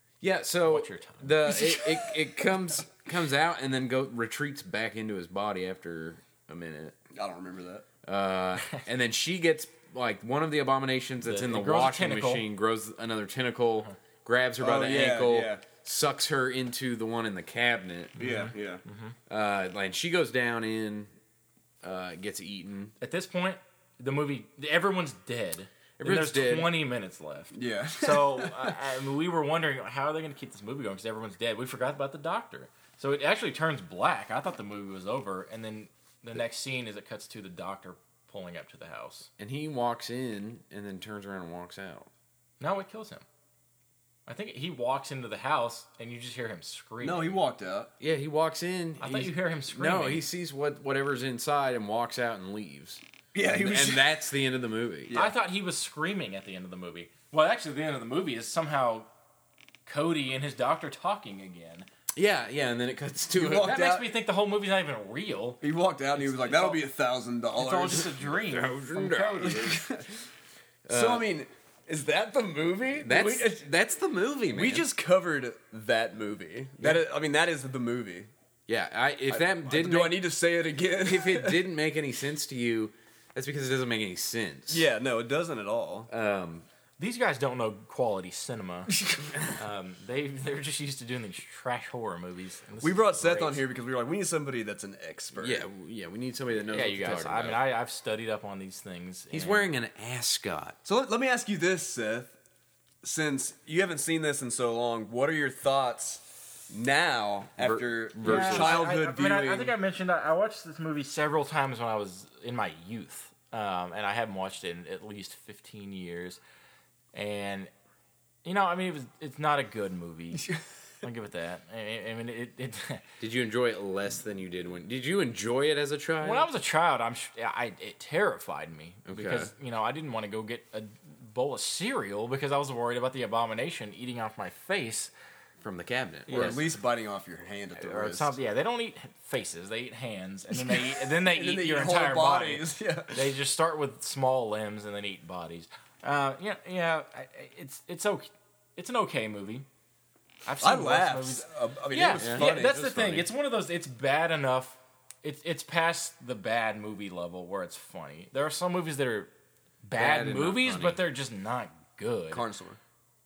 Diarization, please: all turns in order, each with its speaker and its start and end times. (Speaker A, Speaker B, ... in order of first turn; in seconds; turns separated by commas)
Speaker A: 0.2-7.0, Speaker B: 0.7-1.8, Speaker C: 7.1-7.8, Speaker A: 8.0-18.2, Speaker B: 11.2-12.4, Speaker C: 14.6-15.6, Speaker B: 18.2-19.1, Speaker C: 18.2-18.8, Speaker A: 19.3-21.1, Speaker A: 21.8-22.9, Speaker B: 23.0-39.3, Speaker A: 26.0-26.7, Speaker C: 27.5-28.8, Speaker A: 39.4-42.1, Speaker B: 42.6-43.2, Speaker B: 44.3-47.4, Speaker C: 47.0-47.9, Speaker A: 48.0-55.2, Speaker B: 49.0-50.2, Speaker C: 53.3-54.2, Speaker C: 55.1-55.3, Speaker B: 55.1-59.1, Speaker B: 59.9-61.9, Speaker A: 62.1-63.8, Speaker C: 63.3-64.1, Speaker B: 63.4-65.6, Speaker C: 65.6-68.1, Speaker B: 66.2-66.8, Speaker B: 67.5-69.7, Speaker A: 68.2-69.8, Speaker C: 69.4-70.1, Speaker A: 70.9-71.2, Speaker C: 70.9-73.6, Speaker A: 73.0-74.8, Speaker C: 74.5-78.3, Speaker A: 78.7-80.2, Speaker C: 79.3-81.6, Speaker A: 81.0-84.8, Speaker C: 84.7-86.1, Speaker A: 86.1-86.7, Speaker B: 87.0-88.9, Speaker B: 89.5-93.6, Speaker C: 92.8-95.7, Speaker A: 95.3-97.6, Speaker B: 96.7-99.7, Speaker A: 99.3-100.8, Speaker C: 100.8-102.3, Speaker C: 103.0-109.8, Speaker A: 107.6-108.8, Speaker B: 108.2-116.4, Speaker B: 117.1-117.7, Speaker B: 118.4-123.0, Speaker A: 123.2-126.5, Speaker B: 126.2-135.1, Speaker A: 129.1-129.5, Speaker A: 135.6-136.6, Speaker B: 136.3-136.7, Speaker C: 136.3-138.3, Speaker B: 137.8-149.7, Speaker C: 140.5-143.3, Speaker B: 150.4-159.3, Speaker C: 150.6-152.8, Speaker A: 152.2-153.3, Speaker B: 159.8-162.4, Speaker A: 159.9-161.0, Speaker C: 162.3-162.8